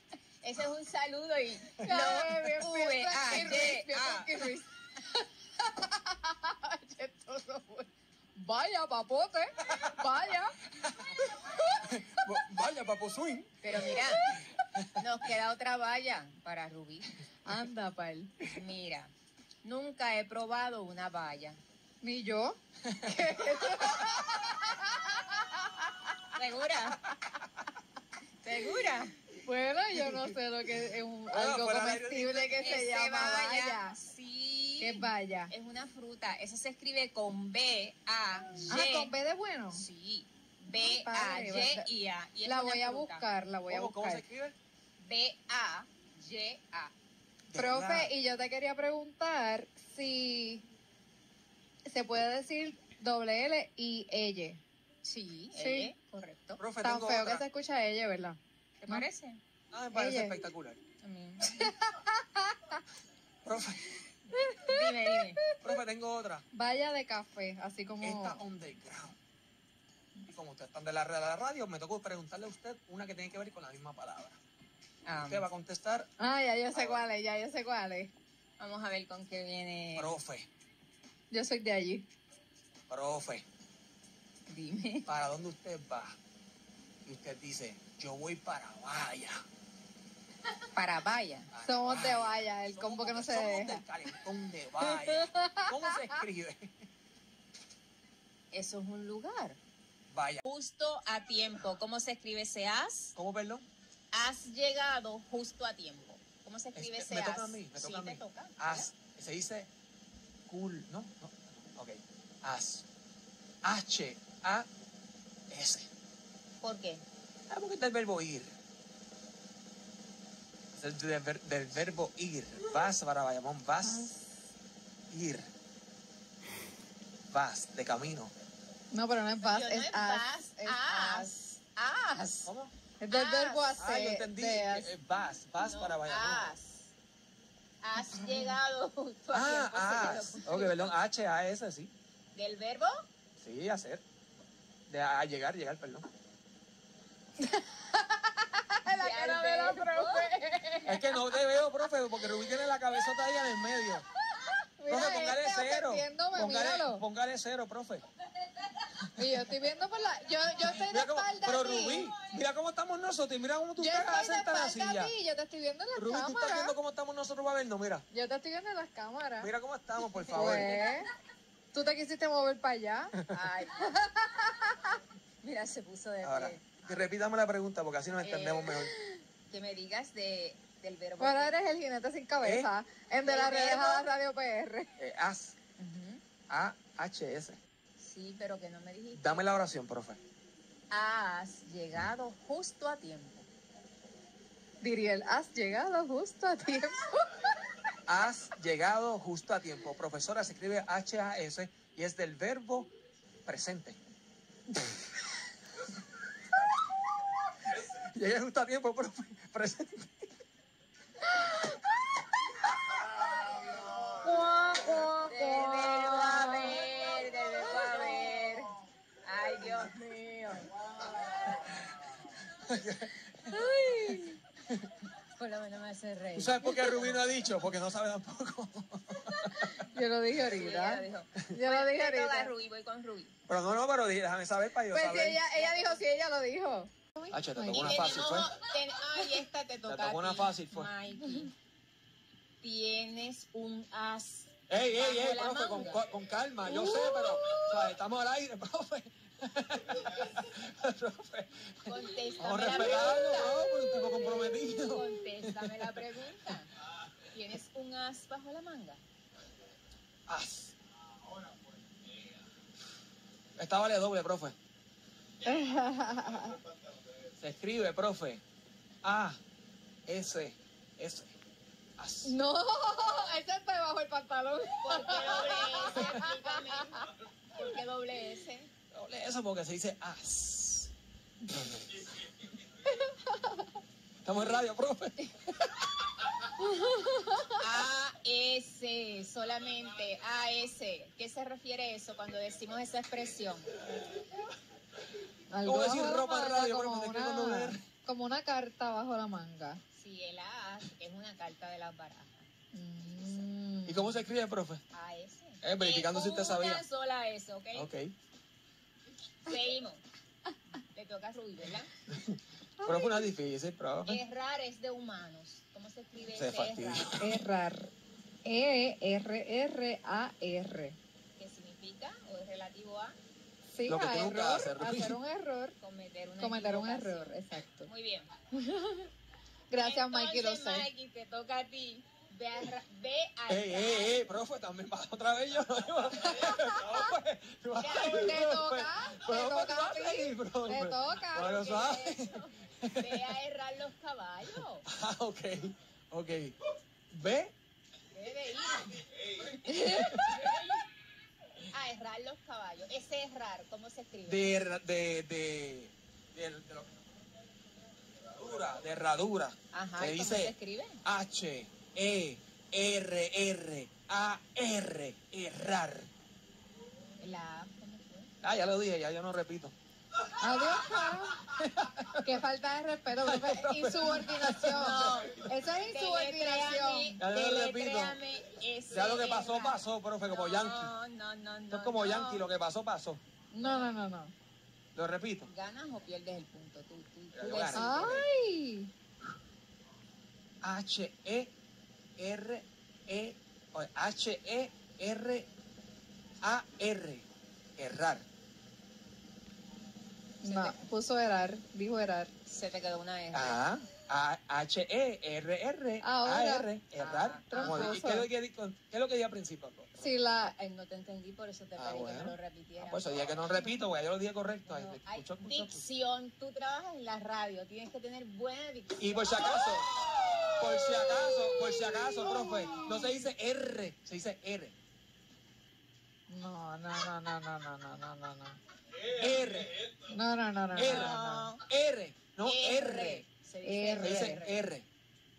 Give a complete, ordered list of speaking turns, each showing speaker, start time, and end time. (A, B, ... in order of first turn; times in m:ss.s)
0:00.4-0:04.5 A
0:01.8-0:10.6 B
0:09.6-0:09.9 C
0:10.8-0:14.9 C
0:13.6-0:14.4 A
0:15.0-0:17.1 A
0:17.5-0:18.4 B
0:18.5-0:21.6 A
0:22.0-0:26.2 B
0:26.4-0:27.0 A
0:28.4-0:29.1 A
0:29.4-0:34.0 B
0:30.0-0:30.3 C
0:31.3-0:32.8 C
0:32.6-0:39.1 A
0:34.8-0:35.5 B
0:38.7-0:39.8 B
0:39.7-0:43.2 A
0:40.7-0:41.9 B
0:42.4-0:44.2 B
0:43.7-0:44.6 C
0:45.0-0:46.9 A
0:47.5-0:48.1 C
0:47.6-0:50.6 B
0:51.9-0:54.6 B
0:55.0-0:56.6 A
0:55.5-0:55.9 B
0:56.6-0:57.4 C
0:56.8-0:59.1 B
0:58.8-0:59.4 A
0:59.7-1:00.8 C
0:59.9-1:00.4 B
1:01.0-1:01.7 A
1:01.4-1:02.8 B
1:03.4-1:04.0 C
1:04.3-1:05.6 B
1:04.6-1:05.4 A
1:05.6-1:06.4 C
1:06.5-1:08.4 B
1:08.0-1:09.2 C
1:10.3-1:14.4 C
1:15.0-1:15.5 A
1:15.1-1:16.1 C
1:16.2-1:18.1 B
1:16.7-1:17.0 C
1:18.6-1:20.2 A
1:20.0-1:20.5 C
1:21.3-1:22.1 B
1:22.9-1:23.4 C
1:24.5-1:25.1 A
1:25.1-1:26.2 C
1:27.0-1:29.4 C
1:30.7-1:31.5 A
1:31.5-1:36.7 C
1:31.6-1:33.8 B
1:34.8-1:36.2 B
1:38.5-1:39.6 A
1:40.1-1:40.4 C
1:40.4-1:43.2 A
1:43.2-1:43.7 C
1:44.1-1:48.9 A
1:46.8-1:49.7 C
1:50.5-1:52.8 C
1:53.6-1:54.7 C
1:55.5-1:55.9 C
1:56.6-1:57.0 A
1:57.5-1:58.5 C
2:00.7-2:04.1 C
2:03.8-2:04.2 B
2:05.1-2:05.5 C
2:07.3-2:08.3 C
2:08.9-2:11.3 B
2:09.4-2:12.5 A
2:12.5-2:12.7 C
2:13.0-2:14.9 B
2:13.1-2:13.7 A
2:13.8-2:16.6 C
2:15.6-2:16.9 A
2:17.8-2:21.0 A
2:19.3-2:21.9 C
2:22.3-2:23.0 A
2:23.4-2:24.0 C
2:24.9-2:26.1 C
2:27.4-2:31.3 B
2:28.9-2:30.3 A
2:30.8-2:34.1 C
2:34.4-2:37.0 B
2:34.9-2:38.0 C
2:39.2-2:42.2 B
2:40.6-2:45.1 C
2:43.8-2:46.8 B
2:46.0-2:48.0 C
2:48.1-2:49.5 B
2:49.4-2:50.8 C
2:50.3-2:51.0 A
2:50.3-2:51.1 B
2:51.7-2:53.2 B
2:53.3-2:54.0 A
2:53.8-2:55.0 B
2:55.4-2:56.7 A
2:56.2-2:59.0 C
2:58.2-3:01.5 A
3:01.2-3:04.9 B
3:02.4-3:02.7 C
3:03.2-3:04.1 A
3:05.0-3:05.6 C
3:05.8-3:06.2 A
3:06.5-3:07.6 C
3:08.0-3:09.5 A
3:09.1-3:10.2 C
3:10.9-3:13.5 A
3:14.8-3:17.3 B
3:18.1-3:22.9 C
3:23.5-3:24.0 C
3:27.7-3:30.2 C
3:34.2-3:36.8 B
3:35.3-3:40.7 A
3:37.8-3:38.3 B
3:42.6-3:43.3 C
3:43.5-3:44.2 A
3:43.5-3:44.4 B
3:45.4-3:47.2 A
3:46.4-3:49.8 C
3:49.9-3:52.5 B
3:50.4-3:53.3 A
3:53.5-3:55.5 C
3:54.9-3:58.2 B
3:55.5-3:56.0 A
3:57.3-3:58.5 C
3:57.6-4:01.5 A
3:59.9-4:00.9 C
4:02.6-4:06.0 A
4:04.7-4:16.0 C
4:06.6-4:07.9 B
4:11.9-4:16.7 A
4:17.3-4:19.0 A
4:20.3-4:20.7 C
4:23.6-4:24.6 C
4:25.4-4:26.6 B
4:27.4-4:28.4 C
4:29.0-4:29.4 C
4:30.1-4:31.3 C
4:32.0-4:32.4 C
4:32.2-4:37.1 B
4:34.8-4:38.7 A
4:36.0-4:36.2 C
4:38.9-4:40.9 C
4:41.6-4:42.0 C
4:42.9-4:43.6 B
4:44.2-4:46.3 C
4:46.6-4:47.6 B
4:47.6-4:53.8 A
4:55.5-4:59.8 B
4:55.6-4:57.8 C
4:59.9-5:02.5 A
5:02.7-5:04.2 B
5:03.8-5:04.8 C
5:04.9-5:07.9 A
5:05.6-5:06.8 C
5:07.7-5:08.1 C
5:09.4-5:10.0 A
5:10.9-5:11.9 A
5:12.1-5:14.2 C
5:12.8-5:13.3 B
5:14.0-5:17.2 A
5:16.3-5:17.4 C
5:17.2-5:17.9 B
5:18.4-5:21.0 B
5:21.4-5:23.2 A
5:23.7-5:25.8 B
5:23.9-5:25.2 C
5:25.8-5:28.3 A
5:26.4-5:27.9 B
5:28.5-5:29.1 B
5:29.7-5:30.9 B
5:29.8-5:34.2 A
5:33.5-5:43.3 C
5:36.4-5:37.0 B
5:37.8-5:38.3 A
5:38.0-5:41.6 B
5:41.4-5:44.9 A
5:44.6-5:46.6 C
5:47.1-5:47.5 C
5:48.1-5:49.5 A
5:49.6-5:50.7 C
5:49.7-5:50.1 B
5:51.7-5:54.6 A
5:54.3-5:56.9 C
5:58.3-6:06.1 C
5:59.7-6:01.0 A
6:07.2-6:08.3 A
6:08.4-6:09.7 C
6:10.4-6:11.4 B
6:10.6-6:12.3 C
6:12.2-6:17.2 B
6:13.2-6:15.2 C
6:14.7-6:22.5 A
6:17.2-6:18.2 C
6:18.9-6:20.9 C
6:21.7-6:23.2 C
6:23.5-6:24.3 B
6:23.6-6:23.9 A
6:25.0-6:25.5 C
6:25.5-6:28.2 A
6:27.3-6:28.3 C
6:27.8-6:28.9 B
6:30.6-6:31.5 C
6:32.2-6:35.5 C
6:36.4-6:37.2 C
6:37.8-6:38.2 C
6:40.4-6:42.3 B
6:40.4-6:40.8 A
6:42.5-6:43.6 A
6:43.3-6:50.1 C
6:46.0-6:46.7 B
6:47.0-6:48.1 A
6:47.5-6:48.3 B
6:50.0-6:50.6 B
6:50.4-6:53.8 A
6:51.8-6:55.8 C
6:54.7-6:59.4 A
6:59.0-7:04.8 C
7:02.1-7:03.3 B
7:06.3-7:08.6 B
7:09.2-7:09.9 C
7:10.1-7:11.5 B
7:10.8-7:13.2 C
7:10.8-7:11.6 A
7:12.4-7:14.6 A
7:13.6-7:14.4 B
7:14.0-7:14.9 C